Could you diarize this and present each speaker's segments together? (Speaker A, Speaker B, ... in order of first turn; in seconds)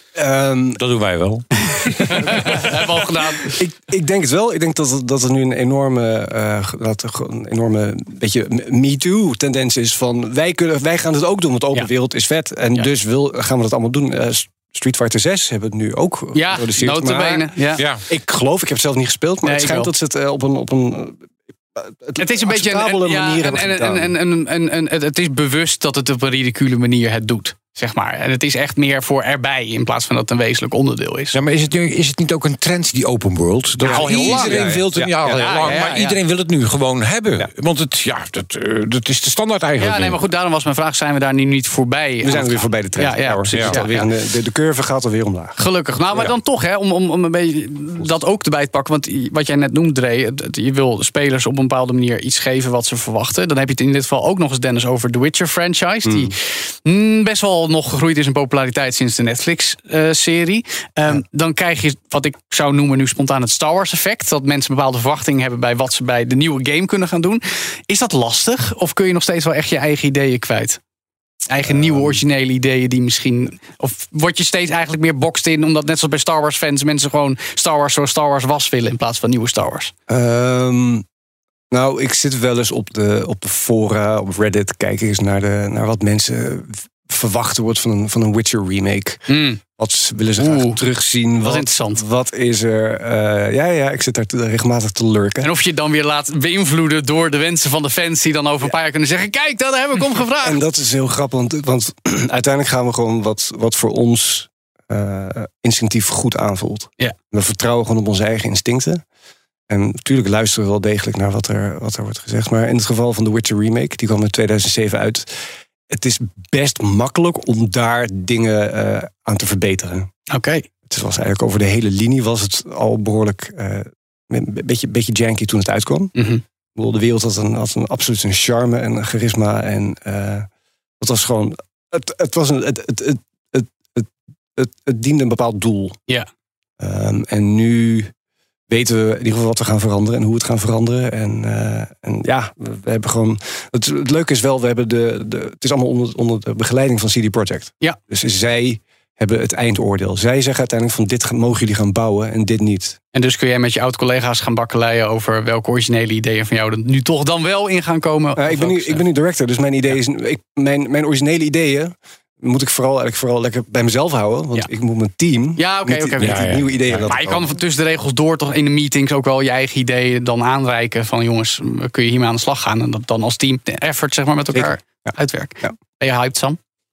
Speaker A: 0.2-0.8, 3.5-24.1, 33.8-35.5, 42.2-45.6, 56.1-56.3, 71.7-72.2, 80.1-81.0, 81.7-95.5, 100.4-109.0, 109.7-120.1, 120.9-126.1, 126.8-130.5, 131.0-136.0, 136.8-138.1, 138.7-153.0, 158.4-167.5, 174.5-175.8
Speaker B: 0.8-2.7, 17.8-18.0, 31.3-40.2, 43.5-43.8, 166.2-167.1
Speaker C: 2.1-3.5, 16.3-17.8, 19.4-19.9, 22.2-31.4, 33.9-34.7, 35.4-36.2, 39.8-44.1, 45.6-70.8, 71.5-79.9, 89.3-89.6, 90.4-90.8, 91.4-92.0, 95.4-100.6, 120.3-120.7, 126.2-126.4, 153.1-159.0, 165.6-166.5, 167.1-176.6